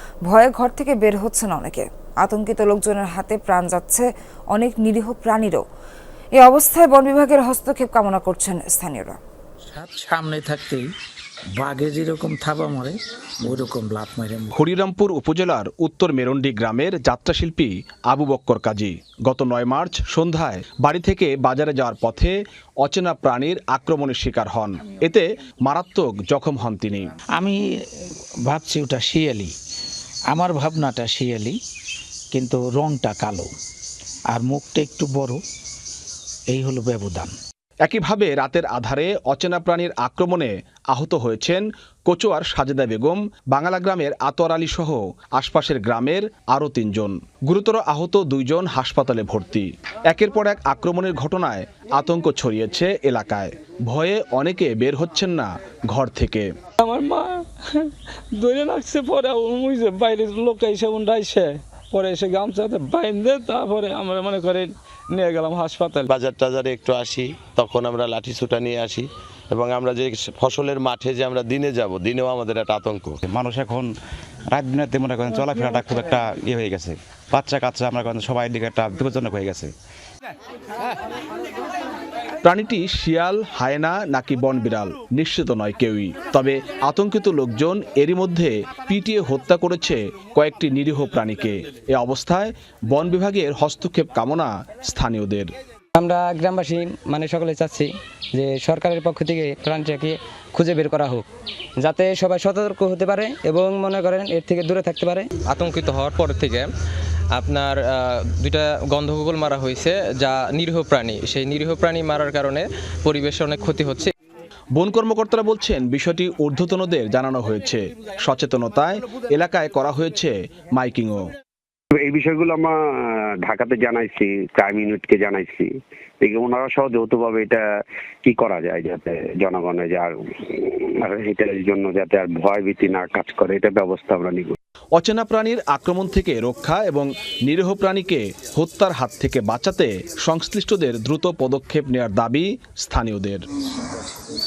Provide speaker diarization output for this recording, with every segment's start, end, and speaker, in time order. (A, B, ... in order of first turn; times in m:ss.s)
0:00.3-0:05.6 A
0:06.4-0:09.2 A
0:09.7-0:10.9 B
0:11.6-0:14.5 B
0:14.5-0:27.0 C
0:28.5-0:29.5 B
0:30.3-0:31.6 B
0:32.3-0:33.5 B
0:34.3-0:35.4 B
0:36.5-0:37.3 B
0:37.8-0:56.5 C
0:56.8-1:06.1 D
1:06.1-1:13.2 E
1:13.2-1:13.9 F
1:14.5-1:19.7 F
1:22.4-1:35.5 C
1:36.0-1:41.3 G
1:41.8-1:45.3 G
1:45.5-1:46.7 H
1:47.4-1:54.1 H
1:54.8-2:01.2 C
2:01.9-2:07.6 I
2:08.2-2:14.6 I
2:15.0-2:23.4 C